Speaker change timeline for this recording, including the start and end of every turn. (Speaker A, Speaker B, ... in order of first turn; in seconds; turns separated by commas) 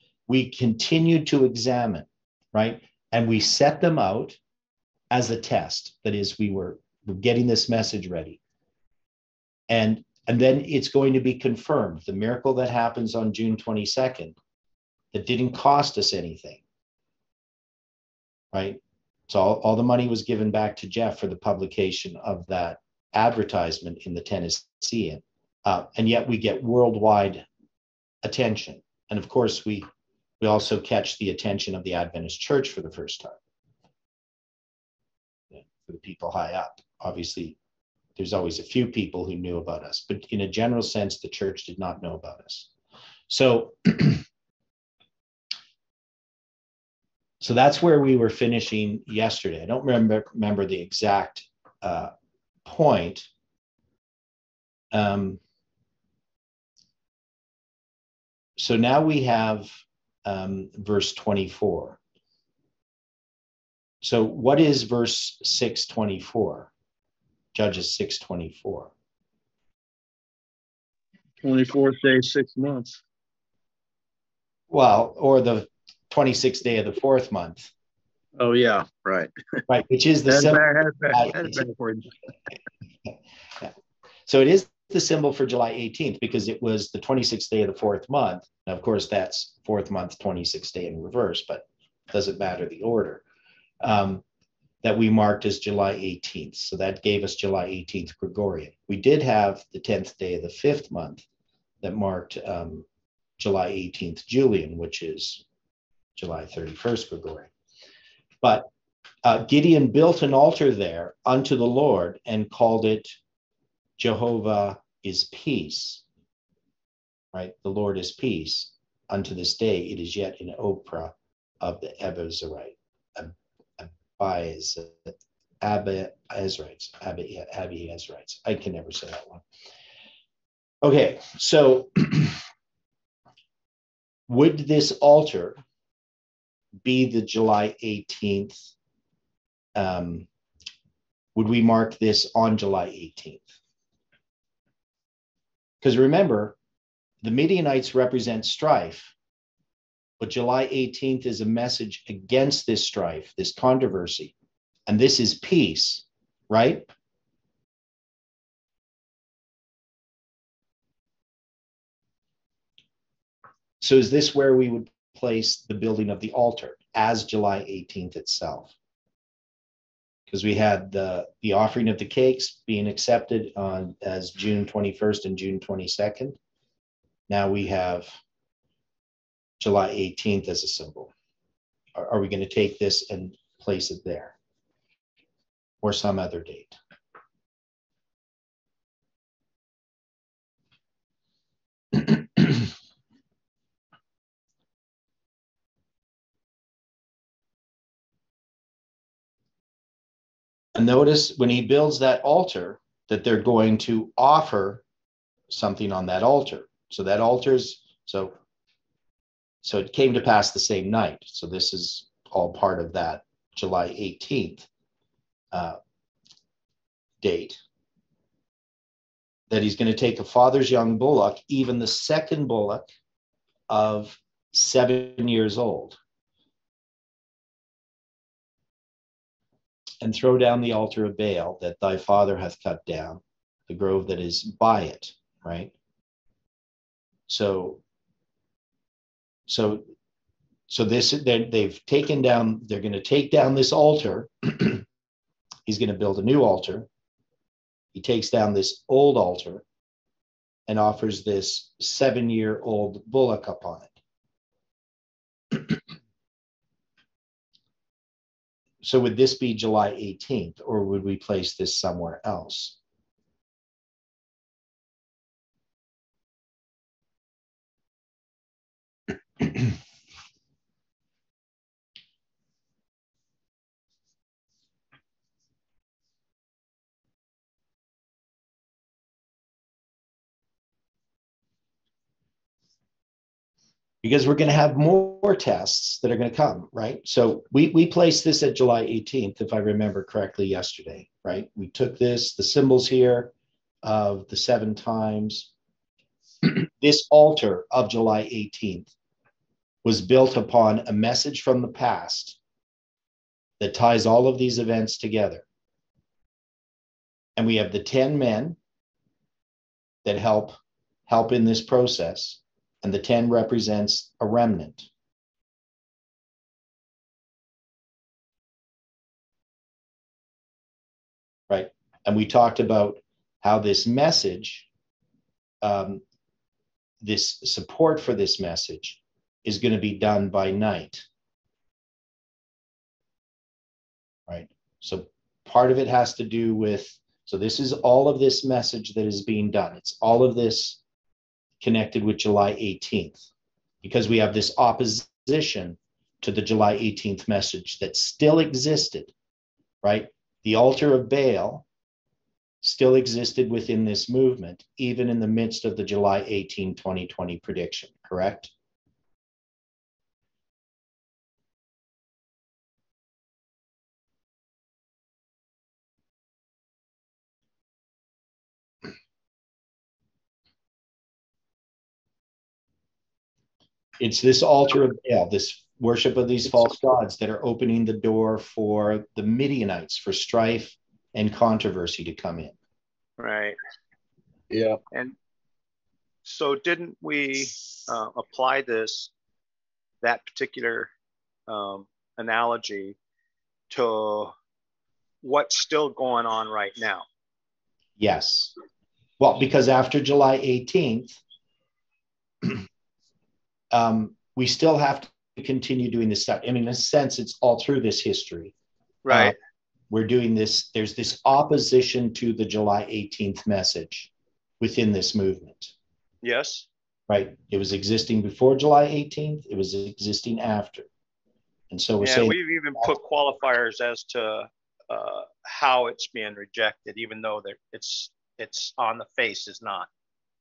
Speaker A: 0.3-4.4, Speaker A: 5.1-8.4, Speaker A: 9.7-14.3, Speaker A: 15.1-16.6, Speaker A: 18.5-27.4, Speaker A: 28.2-29.9, Speaker A: 30.4-33.4, Speaker A: 35.5-37.6, Speaker A: 38.1-42.7, Speaker A: 43.3-44.2, Speaker A: 47.4-52.1, Speaker A: 52.6-53.3, Speaker A: 54.9-55.4, Speaker A: 58.6-62.0, Speaker A: 64.0-66.7, Speaker A: 67.5-68.9, Speaker B: 71.4-73.0, Speaker A: 74.7-77.7, Speaker B: 78.4-79.3, Speaker A: 79.7-81.6, Speaker B: 80.3-82.1, Speaker A: 84.3-93.2, Speaker A: 93.8-94.2, Speaker A: 94.8-101.2, Speaker A: 101.8-102.8, Speaker A: 103.4-105.4, Speaker A: 106.2-107.5, Speaker A: 108.4-108.7, Speaker A: 109.2-113.2, Speaker A: 114.0-116.0, Speaker A: 117.3-129.4, Speaker A: 130.8-132.4, Speaker A: 134.3-135.6, Speaker A: 136.8-138.7, Speaker A: 139.7-140.3, Speaker A: 141.3-143.5, Speaker A: 145.8-146.6, Speaker A: 147.2-149.1, Speaker A: 150.2-154.3, Speaker A: 154.9-156.9, Speaker A: 163.8-168.7, Speaker A: 170.3-176.4, Speaker A: 177.3-178.2, Speaker A: 179.6-181.1, Speaker A: 181.9-184.3, Speaker A: 185.8-186.8, Speaker A: 191.9-192.4, Speaker A: 200.7-204.8, Speaker A: 205.5-208.3, Speaker A: 209.6-214.7, Speaker A: 215.5-215.8, Speaker A: 217.2-217.6, Speaker A: 219.5-222.9, Speaker A: 223.7-226.0, Speaker A: 230.0-235.7, Speaker A: 237.3-237.8, Speaker A: 239.5-239.8, Speaker A: 240.7-244.8, Speaker A: 245.7-246.9, Speaker A: 247.9-249.6, Speaker A: 250.7-253.9, Speaker A: 258.8-262.8, Speaker A: 284.0-295.5, Speaker A: 296.4-298.9, Speaker A: 299.8-302.4, Speaker A: 303.6-305.4, Speaker A: 307.4-308.6, Speaker A: 310.0-314.9, Speaker A: 321.5-324.7, Speaker A: 325.6-326.0, Speaker A: 327.0-331.1, Speaker A: 334.3-340.8, Speaker A: 341.6-343.3, Speaker A: 343.8-349.1, Speaker A: 349.8-351.6, Speaker A: 352.6-358.5, Speaker A: 374.0-382.5, Speaker C: 383.2-383.6, Speaker B: 384.5-384.8, Speaker C: 386.2-389.1, Speaker C: 390.0-390.9, Speaker C: 391.5-392.9, Speaker C: 393.7-394.3, Speaker C: 395.2-397.0, Speaker A: 398.0-398.5, Speaker A: 399.2-401.2, Speaker A: 403.7-408.5, Speaker C: 409.0-409.3, Speaker A: 409.1-409.3, Speaker A: 409.9-415.7, Speaker C: 416.2-416.7, Speaker A: 417.1-420.9, Speaker A: 421.7-422.9, Speaker C: 422.0-429.9